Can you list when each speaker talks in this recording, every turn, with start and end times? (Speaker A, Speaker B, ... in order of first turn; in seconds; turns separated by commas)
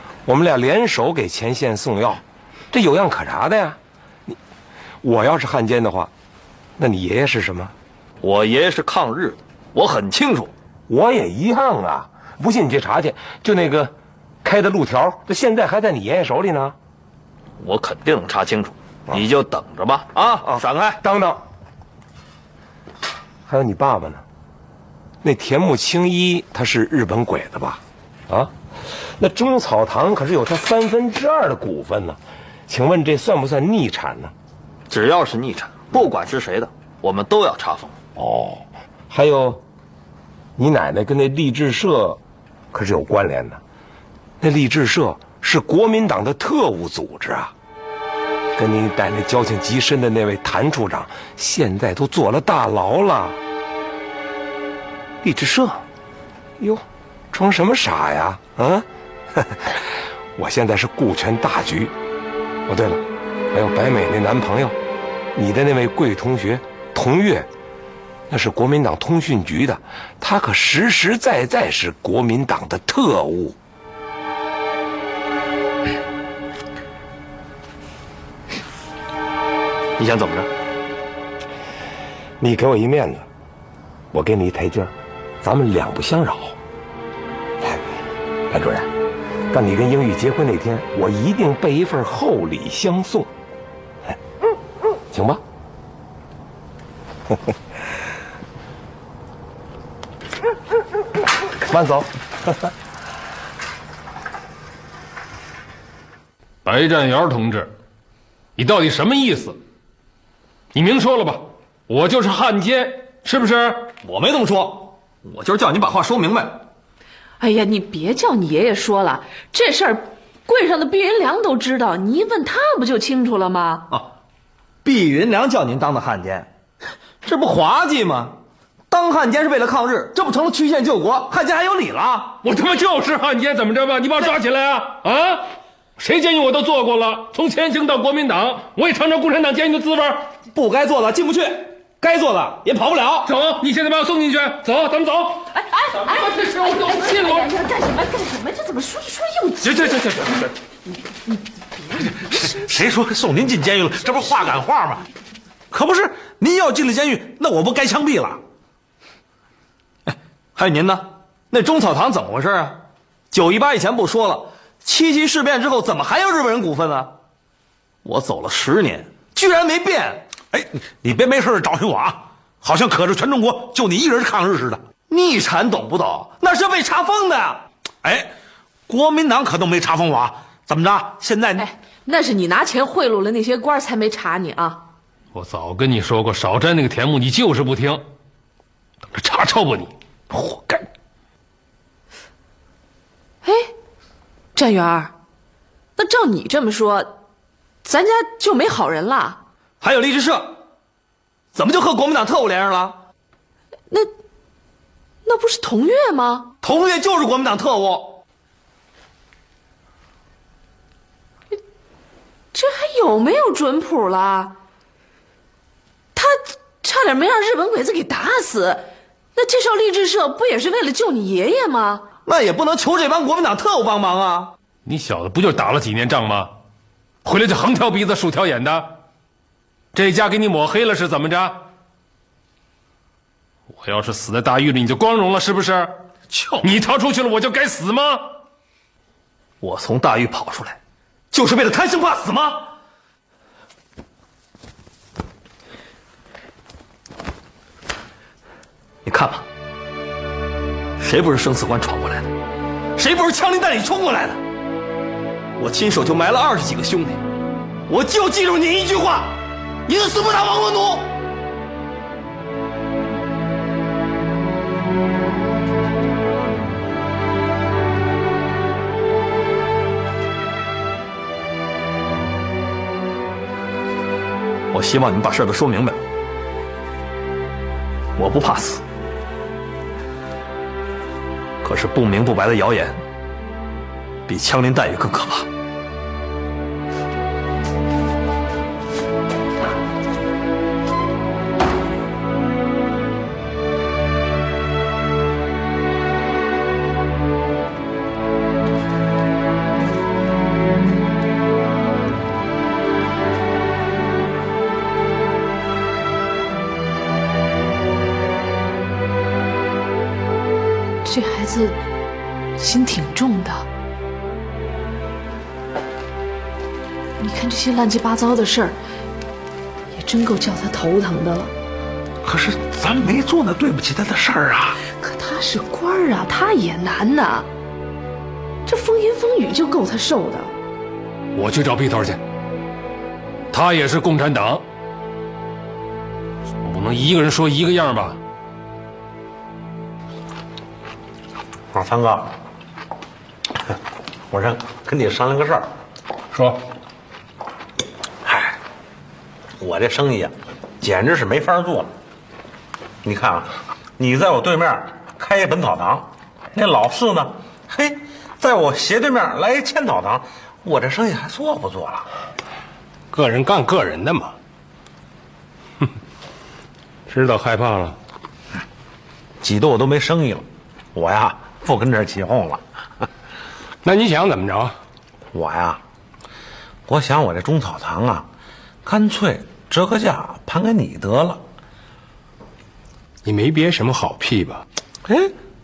Speaker A: 0.2-4.4, Speaker A: 5.0-6.1, Speaker A: 6.8-7.7, Speaker B: 8.2-10.5, Speaker A: 10.9-13.9, Speaker A: 14.4-16.8, Speaker B: 17.6-21.0, Speaker A: 20.4-21.4, Speaker A: 23.5-24.2, Speaker A: 25.2-34.3, Speaker B: 34.9-37.9, Speaker A: 38.1-39.6, Speaker A: 40.6-42.2, Speaker A: 42.7-43.6, Speaker A: 44.4-47.5, Speaker A: 48.5-53.4, Speaker A: 55.2-55.8, Speaker A: 56.6-61.9, Speaker A: 62.7-64.8, Speaker A: 65.3-67.5, Speaker A: 68.3-73.5, Speaker B: 80.0-80.5, Speaker A: 82.4-83.2, Speaker A: 84.1-86.6, Speaker A: 88.5-88.9, Speaker A: 89.5-93.3, Speaker A: 95.1-95.4, Speaker A: 101.6-102.7, Speaker C: 106.6-107.7, Speaker C: 108.6-109.6, Speaker C: 110.7-113.9, Speaker B: 114.0-116.6, Speaker D: 117.4-123.9, Speaker B: 124.8-126.5, Speaker B: 127.2-128.3, Speaker B: 128.9-132.4, Speaker C: 132.4-135.5, Speaker C: 136.0-140.3, Speaker B: 140.5-143.3, Speaker C: 143.2-147.5, Speaker D: 146.8-149.7, Speaker C: 149.6-150.5, Speaker E: 152.4-155.1, Speaker E: 155.7-158.4, Speaker B: 160.1-162.8, Speaker B: 163.3-167.1, Speaker B: 168.0-170.2, Speaker E: 170.5-174.8, Speaker B: 175.1-177.6, Speaker E: 178.0-178.3, Speaker E: 178.9-181.6, Speaker D: 181.6-184.8, Speaker C: 185.3-188.0, Speaker C: 189.1-190.8, Speaker D: 193.4-193.7, Speaker D: 194.5-195.1, Speaker D: 196.0-197.1, Speaker D: 197.8-199.4, Speaker B: 199.8-200.6, Speaker B: 201.5-203.0, Speaker D: 205.2-206.5, Speaker B: 206.6-208.2, Speaker D: 212.5-214.5, Speaker D: 216.1-218.8, Speaker D: 219.3-222.0, Speaker B: 222.2-224.5, Speaker C: 224.8-226.5, Speaker C: 227.2-228.9, Speaker C: 229.9-231.6, Speaker C: 233.7-235.9, Speaker C: 236.6-238.3, Speaker B: 239.6-240.8, Speaker B: 241.3-242.6, Speaker B: 249.1-249.4, Speaker B: 251.0-252.3, Speaker B: 252.9-254.4, Speaker B: 255.6-257.2, Speaker B: 257.9-261.1, Speaker B: 274.7-276.0, Speaker B: 278.2-278.8, Speaker B: 281.6-283.0, Speaker B: 284.3-285.5, Speaker D: 311.0-311.8, Speaker D: 312.6-313.6, Speaker D: 317.2-318.8, Speaker D: 319.9-321.5, Speaker E: 322.2-324.8, Speaker D: 325.0-327.5, Speaker D: 328.6-330.5, Speaker C: 331.3-332.2, Speaker C: 333.5-334.6, Speaker C: 336.6-338.2, Speaker E: 341.7-342.3, Speaker E: 344.3-345.7, Speaker C: 346.3-346.6, Speaker E: 348.2-348.6, Speaker E: 349.6-351.9, Speaker E: 353.0-362.1, Speaker F: 363.1-364.3, Speaker C: 367.1-367.9, Speaker E: 369.4-372.6, Speaker F: 373.8-374.7, Speaker E: 375.3-375.8, Speaker E: 376.9-378.3, Speaker E: 378.8-381.4, Speaker F: 383.2-384.6, Speaker E: 385.0-385.3